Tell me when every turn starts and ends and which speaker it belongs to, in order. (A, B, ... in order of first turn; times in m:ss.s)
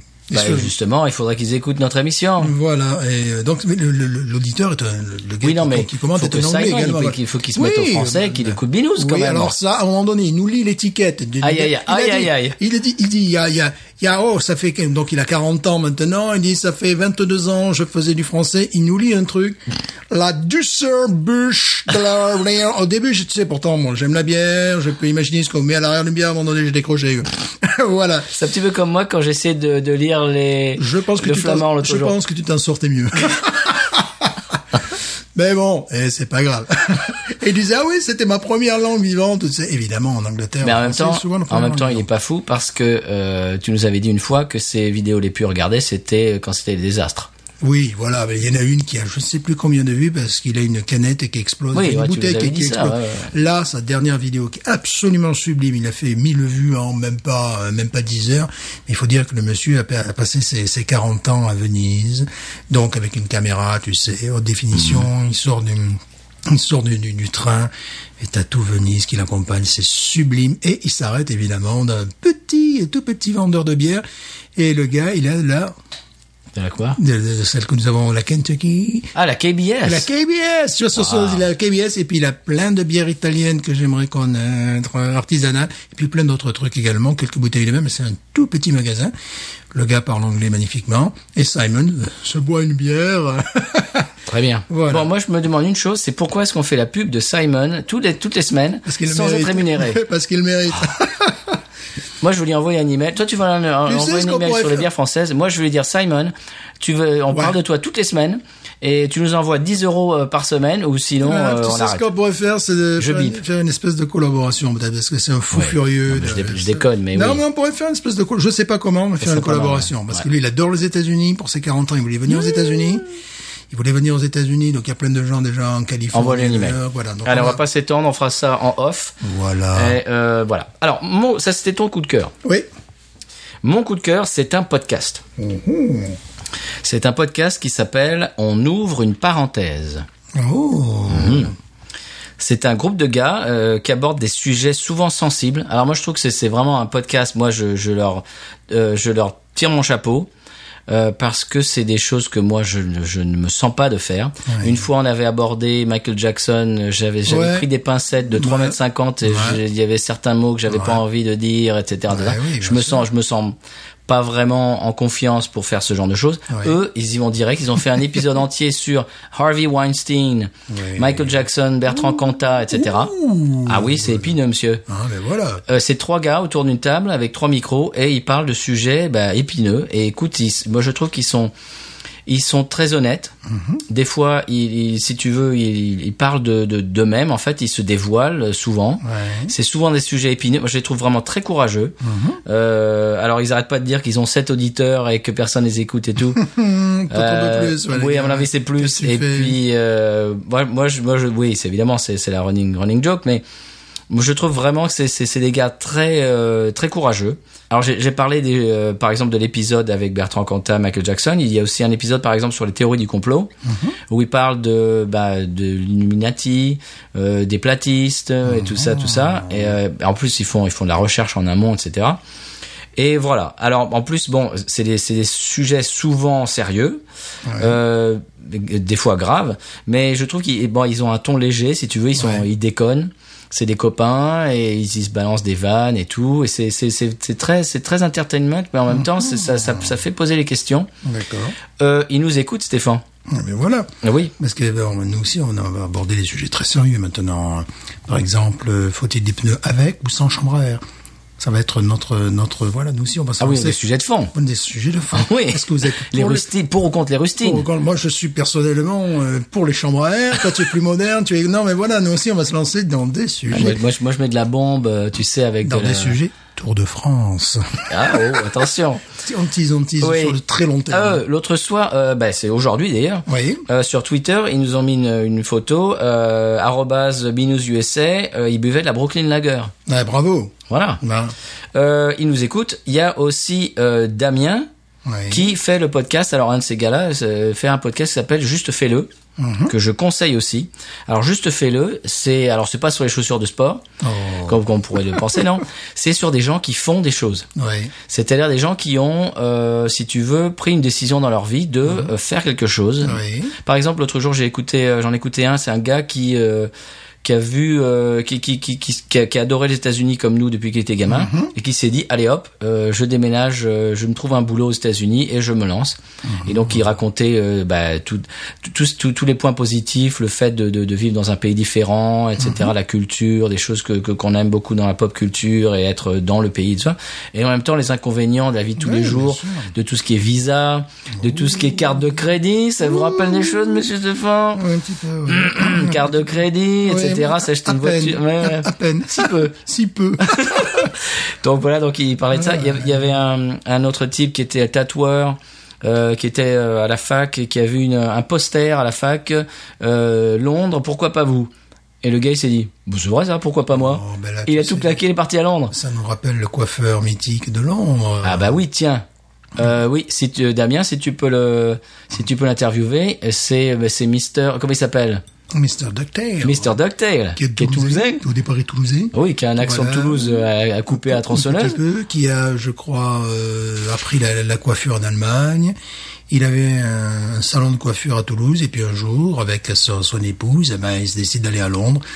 0:00.3-0:00.7 A
0:00.3-0:02.5 B
0:02.4-0:28.3 A
0:05.4-0:09.5 B
0:11.4-0:12.6 B
0:28.3-0:32.2 B
0:30.8-0:34.6 A
0:35.3-0:42.1 A
0:40.6-0:47.3 B
0:47.6-1:14.0 A
0:51.7-0:53.3 B
1:04.8-1:05.0 B
1:14.6-1:15.7 A
1:16.5-1:17.0 B
1:16.9-1:19.1 A
1:19.1-1:20.1 B
1:19.8-1:29.1 A
1:21.0-1:21.4 B
1:29.7-1:34.1 A
1:34.3-1:40.0 B
1:34.7-1:35.1 A
1:38.8-1:41.6 A
1:42.2-1:52.0 B
1:43.8-1:44.9 A
1:47.3-1:47.6 A
1:51.2-2:03.0 A
1:53.0-1:53.4 B
1:55.5-1:57.4 B
1:59.2-2:00.2 B
2:03.7-2:07.6 A
2:06.1-2:09.1 B
2:09.2-2:10.0 A
2:09.7-2:12.3 B
2:13.6-2:15.2 B
2:15.4-2:16.2 A
2:16.8-2:20.0 B
2:20.3-2:21.5 A
2:21.1-2:21.5 B
2:22.4-2:30.3 B
2:30.9-2:43.6 B
2:34.5-2:34.8 A
2:37.2-2:37.7 A
2:38.3-2:39.6 A
2:40.7-2:41.0 A
2:42.1-2:43.1 A
2:44.1-2:53.1 B
2:46.5-2:46.8 A
2:50.7-2:54.4 A
2:53.6-2:54.8 B
2:54.9-2:55.6 A
2:55.7-3:01.5 B
3:02.3-3:03.3 B
3:03.4-3:03.8 A
3:03.9-3:16.4 B
3:09.0-3:09.5 A
3:12.0-3:12.4 A
3:16.3-3:19.6 A
3:17.1-3:23.4 B
3:24.1-3:33.5 B
3:33.6-3:34.0 A
3:34.1-3:42.2 B
3:38.4-3:39.8 A
3:43.0-3:47.0 B
3:47.4-3:47.8 A
3:47.6-4:00.9 B
3:52.2-3:52.4 A
3:58.9-4:00.0 A
4:01.0-4:01.6 A
4:01.8-4:03.0 B
4:03.3-4:10.8 A
4:04.0-4:04.3 B
4:11.4-4:13.8 A
4:13.4-4:14.3 B
4:14.3-4:16.5 A
4:15.1-4:17.6 B
4:17.4-4:23.8 A
4:23.5-4:26.2 B
4:25.6-4:28.4 A
4:27.9-4:29.0 B
4:29.1-4:31.2 A
4:30.0-4:30.4 B
4:30.9-4:39.7 B
4:33.3-4:33.6 A
4:39.9-4:41.3 A
4:40.7-4:41.0 B
4:41.7-4:44.7 B
4:45.0-4:45.5 A
4:45.3-4:49.1 B
4:49.4-4:49.7 A
4:49.7-4:53.8 B
4:54.0-4:55.4 A
4:54.5-4:57.5 B
4:57.6-4:57.9 A
4:58.1-5:06.7 B
5:01.8-5:02.1 A
5:03.0-5:03.6 A
5:07.2-5:34.6 B
5:11.1-5:11.5 A
5:16.2-5:16.8 A
5:22.4-5:22.7 A
5:28.8-5:29.7 A
5:31.1-5:32.2 A
5:32.8-5:33.8 A
5:34.6-5:40.9 A
5:35.3-5:39.5 B
5:40.3-5:51.5 B
5:42.3-5:43.1 A
5:52.0-5:55.7 B
5:53.7-5:55.0 A
5:55.7-5:58.6 A
5:58.2-5:59.0 B
5:59.6-6:05.2 B
6:05.5-6:06.8 A
6:06.4-6:08.2 B
6:07.3-6:15.7 A
6:09.1-6:11.8 B
6:16.3-6:22.0 A